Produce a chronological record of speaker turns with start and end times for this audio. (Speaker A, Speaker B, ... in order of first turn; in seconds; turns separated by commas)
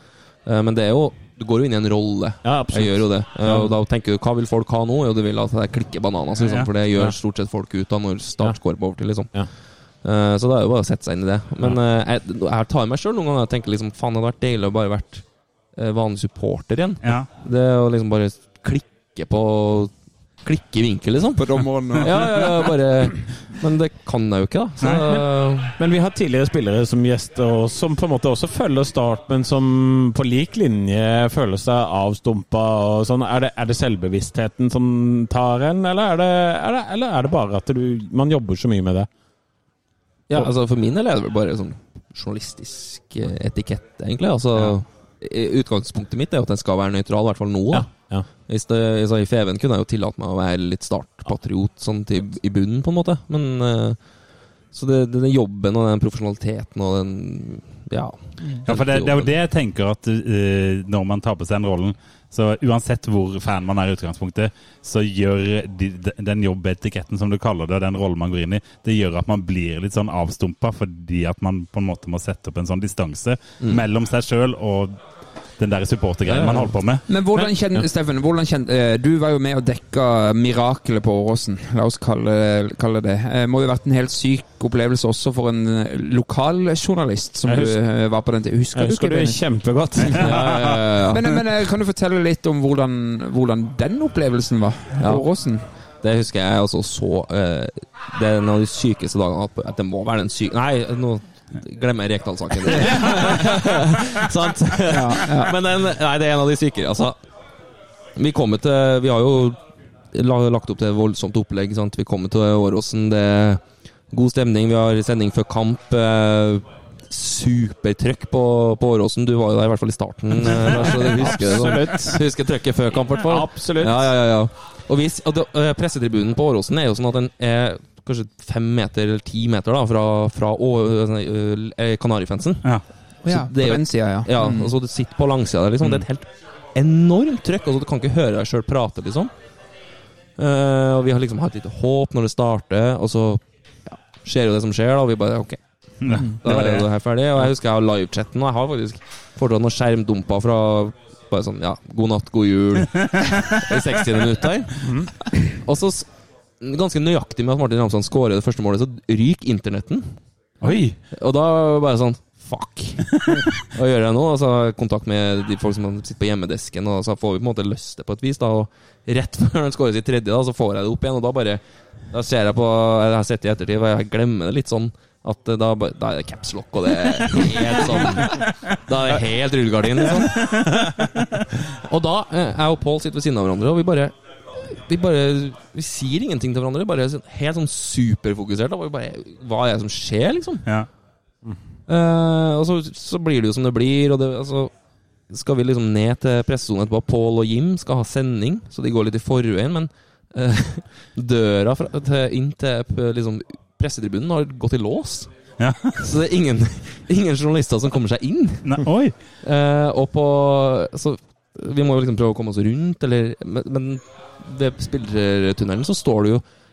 Speaker A: 0.4-19.9, Speaker B: 2.4-3.7, Speaker C: 6.4-6.7, Speaker A: 20.4-25.8, Speaker D: 21.4-22.7, Speaker B: 25.7-39.1, Speaker A: 40.3-47.9, Speaker B: 47.7-48.2, Speaker A: 48.5-54.0, Speaker A: 54.7-59.3, Speaker C: 58.6-75.0, Speaker C: 75.6-77.1, Speaker A: 76.2-76.7, Speaker D: 77.1-89.4, Speaker B: 87.4-87.8, Speaker B: 88.7-91.1, Speaker A: 90.2-91.2, Speaker D: 91.1-95.7, Speaker A: 95.0-95.2, Speaker A: 96.0-107.2, Speaker D: 104.9-105.5, Speaker A: 108.2-109.6, Speaker A: 110.1-132.7, Speaker B: 120.4-122.2, Speaker B: 123.2-124.1, Speaker D: 133.2-134.7, Speaker A: 133.2-139.3, Speaker A: 140.4-156.1, Speaker C: 146.0-146.8, Speaker C: 153.0-153.4, Speaker B: 154.8-155.1, Speaker A: 156.6-160.2, Speaker C: 160.6-161.0, Speaker A: 161.1-180.7, Speaker C: 180.2-181.3, Speaker A: 181.7-190.7, Speaker A: 191.9-194.7, Speaker A: 195.3-205.3, Speaker C: 205.6-206.0, Speaker A: 205.9-208.8, Speaker C: 208.6-209.1, Speaker A: 209.4-216.4